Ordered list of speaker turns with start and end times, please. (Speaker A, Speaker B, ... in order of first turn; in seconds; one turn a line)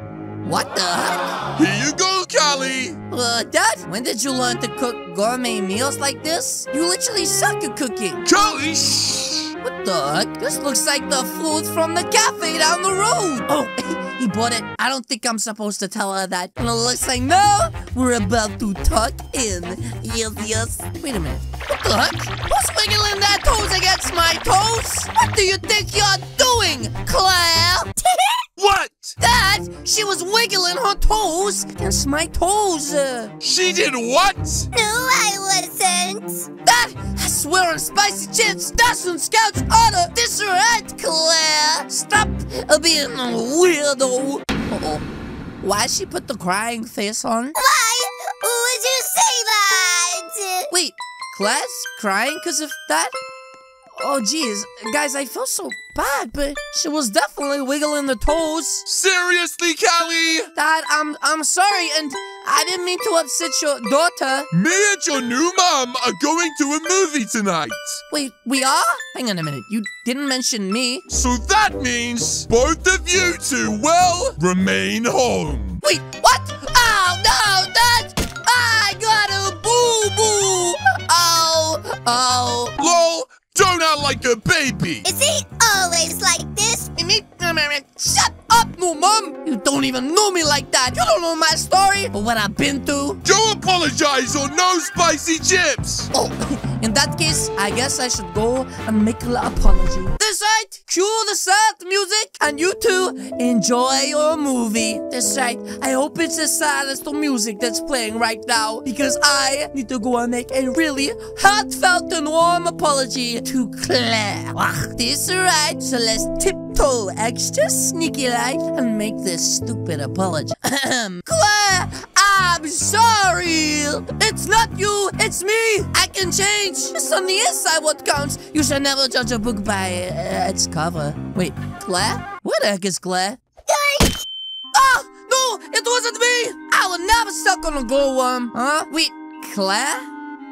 Speaker A: 0.4-1.3
Speaker B: 1.6-3.0
Speaker A: 3.1-8.3
Speaker B: 8.3-9.5
Speaker A: 9.6-27.9
Speaker C: 28.1-28.4
Speaker B: 28.6-29.1
Speaker A: 29.2-33.3
Speaker B: 33.4-34.7
Speaker C: 34.7-36.5
Speaker A: 36.6-45.0
Speaker A: 45.6-47.5
Speaker C: 47.5-50.7
Speaker A: 50.7-53.1
Speaker A: 54.0-58.9
Speaker B: 58.9-60.5
Speaker A: 60.5-64.5
Speaker B: 64.5-68.0
Speaker A: 68.1-71.0
Speaker B: 71.1-75.8
Speaker A: 75.8-82.8
Speaker B: 82.8-85.1
Speaker C: 85.0-86.9
Speaker A: 87.0-93.2
Speaker B: 93.2-96.1
Speaker A: 96.1-133.4
Speaker C: 133.7-134.2
Speaker A: 134.7-140.1